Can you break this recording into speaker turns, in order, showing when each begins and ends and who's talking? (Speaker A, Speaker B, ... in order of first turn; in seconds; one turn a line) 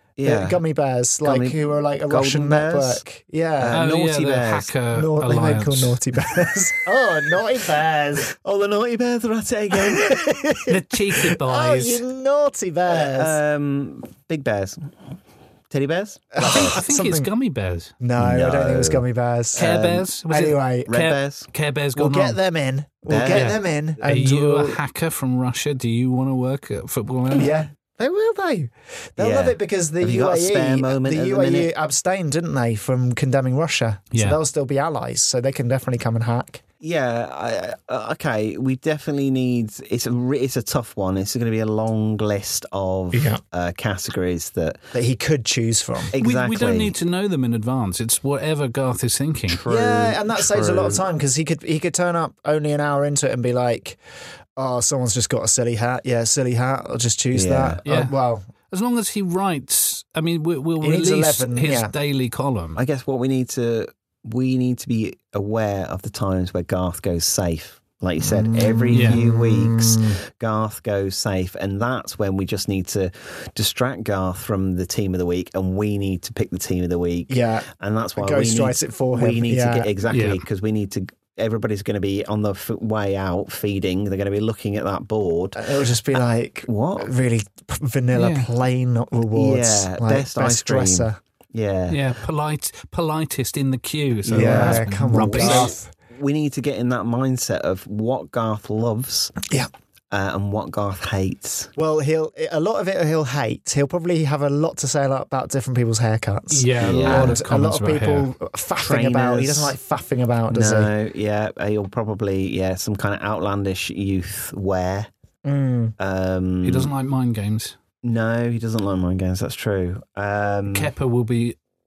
Speaker A: 0.2-0.6
Speaker B: 0.2-3.9
Speaker A: 1.2-3.0
Speaker A: 3.6-4.8
Speaker C: 3.7-6.0
Speaker B: 4.9-8.3
Speaker A: 8.3-10.4
Speaker B: 9.7-13.4
Speaker C: 10.7-12.0
Speaker A: 12.9-15.0
Speaker A: 15.7-16.8
Speaker B: 16.4-17.3
Speaker C: 16.4-17.9
Speaker B: 18.0-19.7
Speaker A: 18.2-20.1
Speaker C: 19.6-22.4
Speaker B: 20.3-21.0
Speaker A: 20.9-21.5
Speaker B: 21.9-24.8
Speaker A: 23.1-23.6
Speaker C: 23.3-27.5
Speaker B: 27.3-36.6
Speaker A: 29.2-31.7
Speaker C: 34.1-34.4
Speaker A: 36.8-44.8
Speaker B: 43.1-43.4
Speaker B: 44.9-46.1
Speaker A: 46.1-46.9
Speaker C: 46.2-49.6
Speaker A: 49.5-51.0
Speaker B: 49.7-54.0
Speaker B: 54.6-58.5
Speaker A: 57.3-57.8
Speaker C: 57.9-58.1
Speaker C: 58.7-62.8
Speaker B: 60.8-61.9
Speaker A: 62.8-85.8
Speaker B: 68.2-70.2
Speaker C: 68.9-69.2
Speaker B: 77.3-79.9
Speaker C: 80.1-80.4
Speaker B: 85.6-91.2
Speaker A: 86.7-87.1
Speaker C: 88.1-88.5
Speaker A: 89.3-92.0
Speaker C: 91.9-95.8
Speaker A: 94.2-99.4
Speaker B: 94.3-95.9
Speaker A: 100.1-101.7
Speaker B: 101.8-110.9
Speaker C: 106.5-108.3
Speaker A: 106.8-107.4
Speaker A: 108.8-109.7
Speaker A: 110.5-115.1
Speaker B: 115.5-116.0
Speaker A: 116.0-116.9
Speaker C: 116.6-117.8
Speaker A: 118.0-120.9
Speaker C: 120.7-121.6